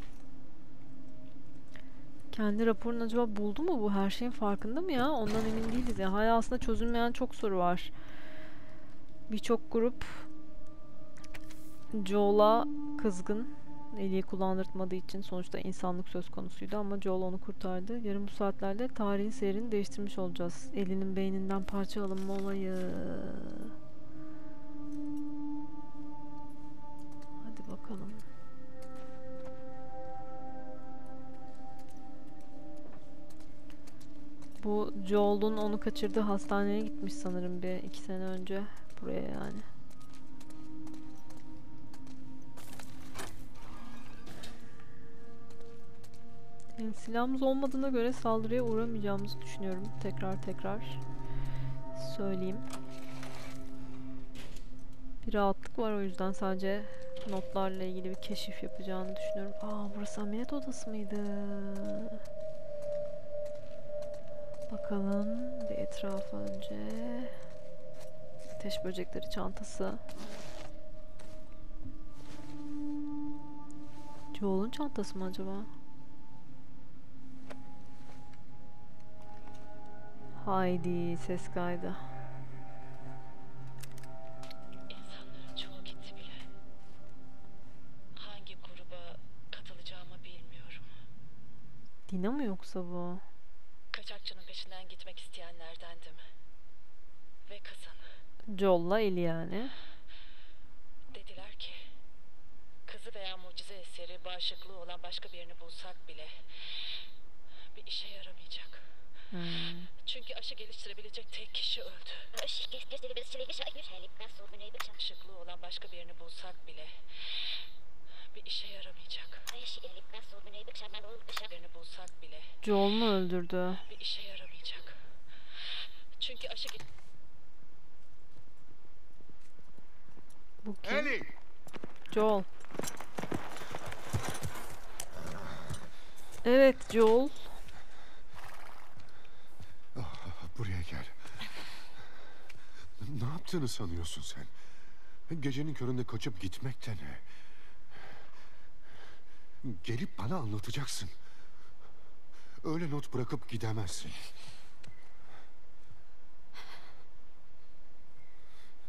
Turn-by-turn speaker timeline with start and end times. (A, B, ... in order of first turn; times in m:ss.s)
0:02.3-0:07.9 A
0:09.3-0:10.3 A
0:11.9-0:23.7 A
0:27.4-0:28.2 A
0:34.6-0:39.7 A
0:46.8-0:51.0 A
0:52.0-0:52.7 A
0:55.2-1:02.2 A
1:04.7-1:07.3 A
1:08.6-1:10.0 A
1:14.3-1:15.7 A
1:20.4-1:22.0 A
1:24.9-1:26.5 B
1:28.2-1:30.9 B
1:32.1-1:33.2 A
1:33.9-1:36.2 B
1:37.5-1:38.0 B
1:38.5-1:39.8 A
1:41.1-1:41.9 B
1:42.9-1:46.3 B
1:47.8-1:48.8 B
1:49.3-1:49.9 A
1:50.0-1:57.5 B
1:58.3-2:02.5 B
2:02.6-2:03.8 A
2:03.9-2:05.0 B
2:06.2-2:06.8 B
2:10.6-2:11.2 A
2:12.1-2:12.5 A
2:16.4-2:17.5 A
2:23.1-2:24.4 C
2:25.5-2:27.1 C
2:30.1-2:31.1 C
2:32.7-2:34.2 C